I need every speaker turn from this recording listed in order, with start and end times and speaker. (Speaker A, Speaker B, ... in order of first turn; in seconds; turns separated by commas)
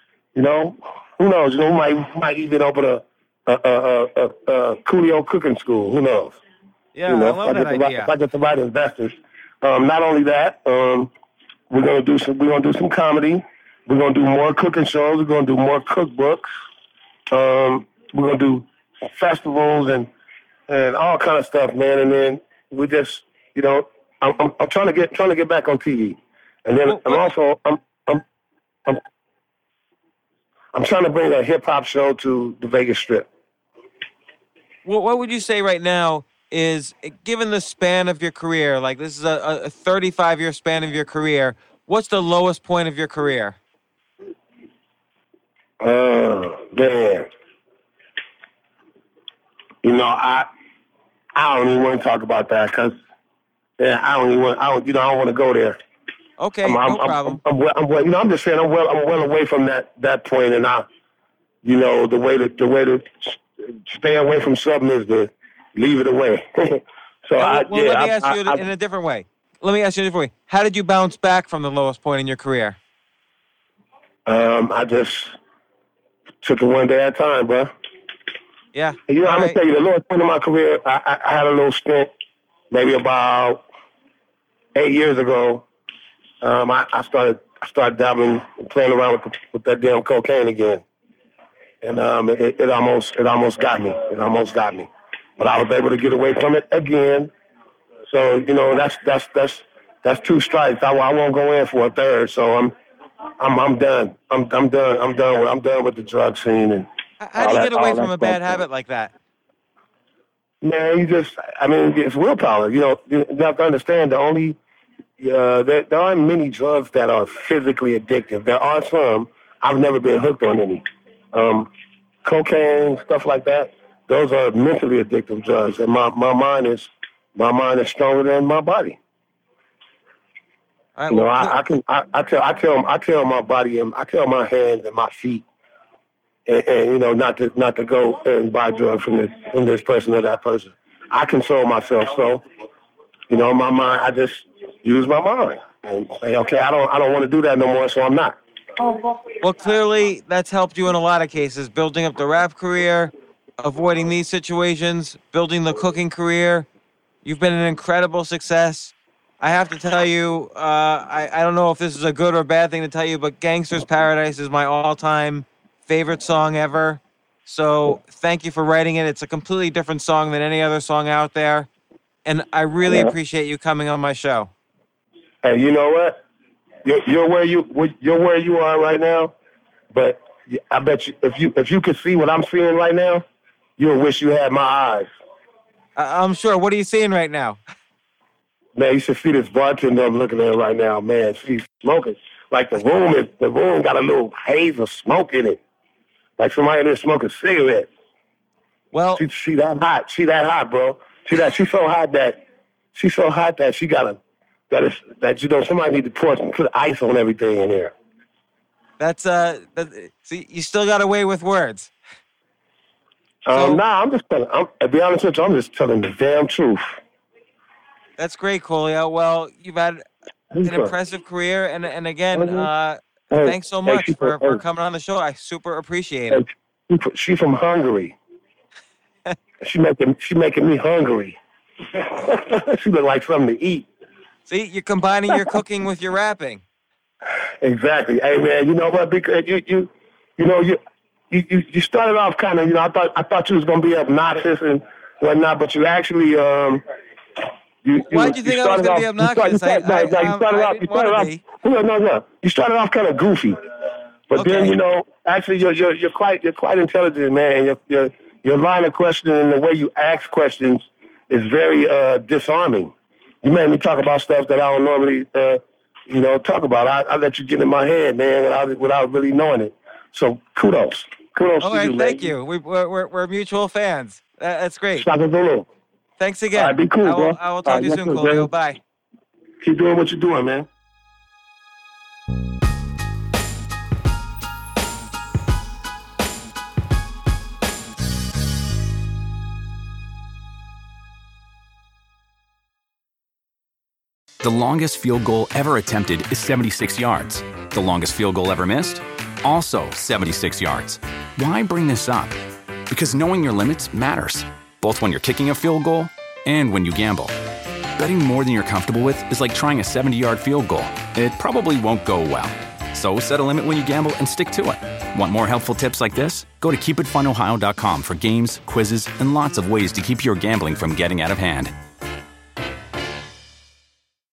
Speaker A: 0.3-6.4, Speaker B: 6.9-8.1, Speaker A: 7.1-11.1, Speaker A: 11.7-16.5, Speaker A: 17.3-20.1, Speaker A: 20.7-28.2, Speaker B: 26.9-27.2, Speaker A: 30.7-33.3, Speaker B: 34.8-43.6, Speaker A: 45.8-47.3, Speaker A: 49.8-50.5, Speaker A: 51.3-53.0, Speaker A: 53.8-55.8, Speaker B: 56.4-57.4, Speaker A: 56.6-60.9, Speaker A: 61.6-68.6, Speaker B: 67.4-72.8, Speaker A: 74.2-75.4, Speaker A: 76.4-77.7, Speaker B: 78.7-79.6, Speaker A: 79.1-82.1, Speaker A: 82.7-83.6, Speaker A: 84.7-85.7, Speaker A: 86.4-90.8, Speaker A: 91.8-97.3, Speaker A: 98.1-102.7, Speaker A: 103.4-108.6, Speaker B: 107.2-109.1, Speaker A: 110.6-114.6, Speaker A: 115.2-121.7, Speaker A: 122.2-129.0, Speaker B: 130.9-131.5, Speaker A: 131.1-135.4, Speaker A: 136.5-142.4, Speaker A: 143.3-148.4, Speaker B: 149.4-156.7, Speaker B: 157.2-171.7, Speaker B: 172.2-174.5, Speaker A: 172.8-173.1, Speaker A: 175.4-176.2, Speaker A: 176.8-179.3, Speaker A: 179.9-183.2, Speaker A: 183.8-185.1, Speaker B: 185.9-187.6, Speaker A: 188.7-195.6, Speaker A: 196.4-197.9, Speaker B: 198.9-199.2, Speaker A: 199.2-202.4, Speaker A: 202.9-207.9, Speaker B: 209.0-211.9, Speaker A: 213.4-217.0, Speaker B: 213.5-213.8, Speaker B: 218.2-220.0, Speaker A: 220.5-220.9, Speaker B: 220.6-226.4, Speaker A: 222.3-222.7, Speaker A: 223.3-224.6, Speaker A: 226.3-228.2, Speaker A: 229.6-231.4, Speaker A: 231.9-233.9, Speaker B: 234.5-236.6, Speaker A: 237.6-240.8, Speaker A: 241.3-246.8, Speaker A: 247.8-253.6, Speaker B: 248.1-251.4, Speaker A: 254.3-272.3, Speaker B: 254.3-254.8, Speaker B: 271.6-275.1, Speaker A: 274.9-275.7, Speaker B: 276.2-278.8, Speaker A: 276.5-278.5, Speaker A: 279.6-280.7, Speaker C: 294.4-302.4, Speaker C: 302.9-307.4, Speaker C: 308.0-321.7